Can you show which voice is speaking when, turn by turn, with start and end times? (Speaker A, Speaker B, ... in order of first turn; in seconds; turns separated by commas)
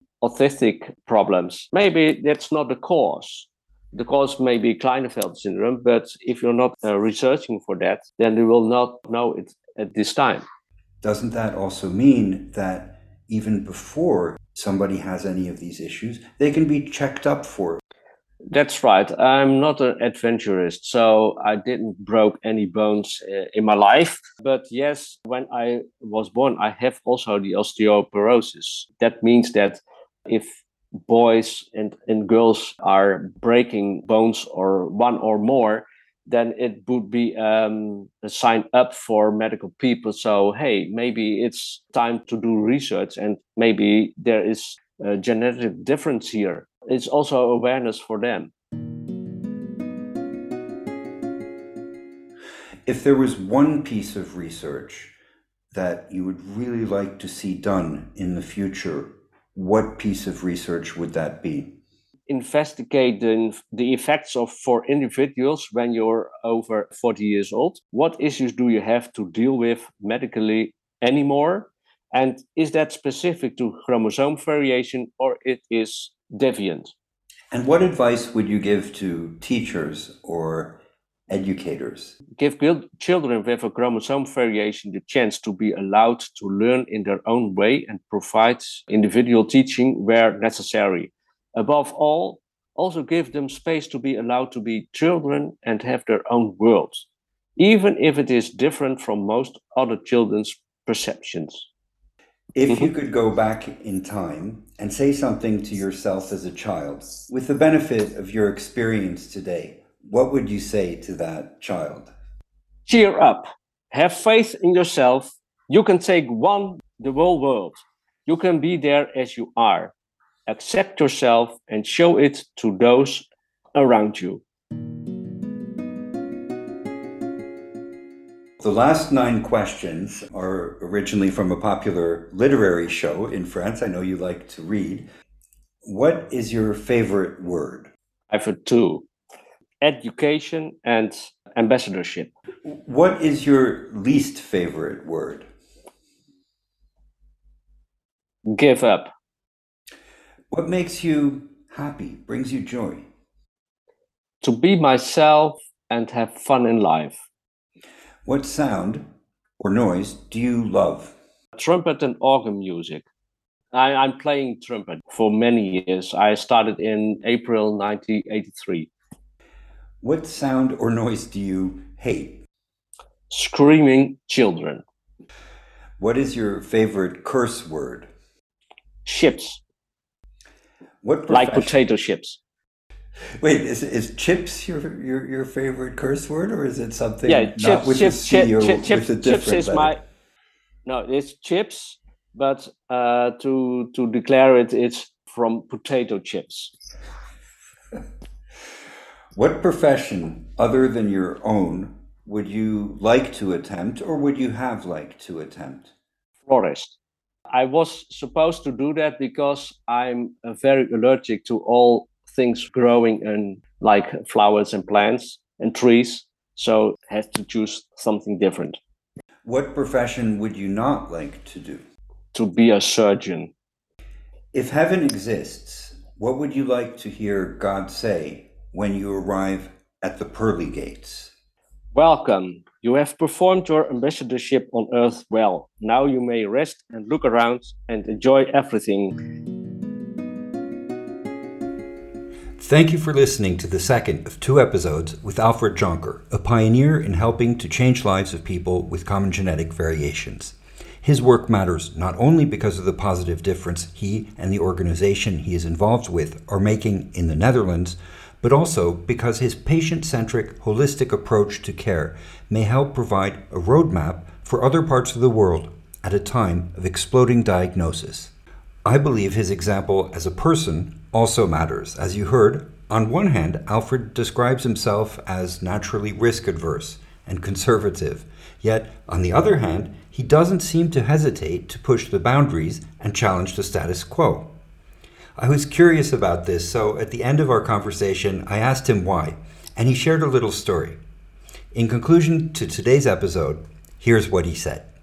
Speaker A: 0.2-10.4, Speaker B: 11.0-17.8, Speaker A: 18.5-48.5, Speaker B: 52.9-55.1, Speaker B: 55.7-61.8, Speaker A: 62.3-76.9, Speaker B: 77.5-82.2, Speaker A: 82.4-97.1, Speaker A: 97.6-101.7, Speaker B: 102.5-112.1, Speaker A: 112.9-119.9, Speaker A: 120.5-124.4, Speaker B: 128.6-135.1, Speaker B: 135.8-137.9, Speaker A: 138.3-139.1, Speaker A: 139.8-142.3, Speaker B: 142.7-145.5, Speaker A: 148.5-149.1, Speaker B: 150.5-153.1, Speaker A: 154.4-157.2, Speaker B: 158.3-159.1, Speaker B: 159.6-161.2, Speaker A: 161.6-163.1, Speaker A: 163.7-168.9, Speaker B: 170.0-172.4, Speaker A: 173.3-174.8, Speaker B: 176.0-178.1, Speaker A: 179.1-179.6, Speaker B: 181.0-181.8, Speaker A: 181.3-182.4, Speaker B: 183.4-189.9, Speaker A: 187.2-190.0, Speaker A: 190.9-196.7, Speaker B: 199.3-205.9, Speaker A: 206.4-207.0, Speaker A: 207.5-218.8, Speaker B: 219.4-221.8, Speaker A: 222.3-223.5, Speaker B: 224.5-231.3, Speaker A: 231.9-239.2, Speaker B: 242.6-268.3, Speaker B: 268.9-284.5, Speaker B: 285.4-291.0, Speaker B: 291.7-294.9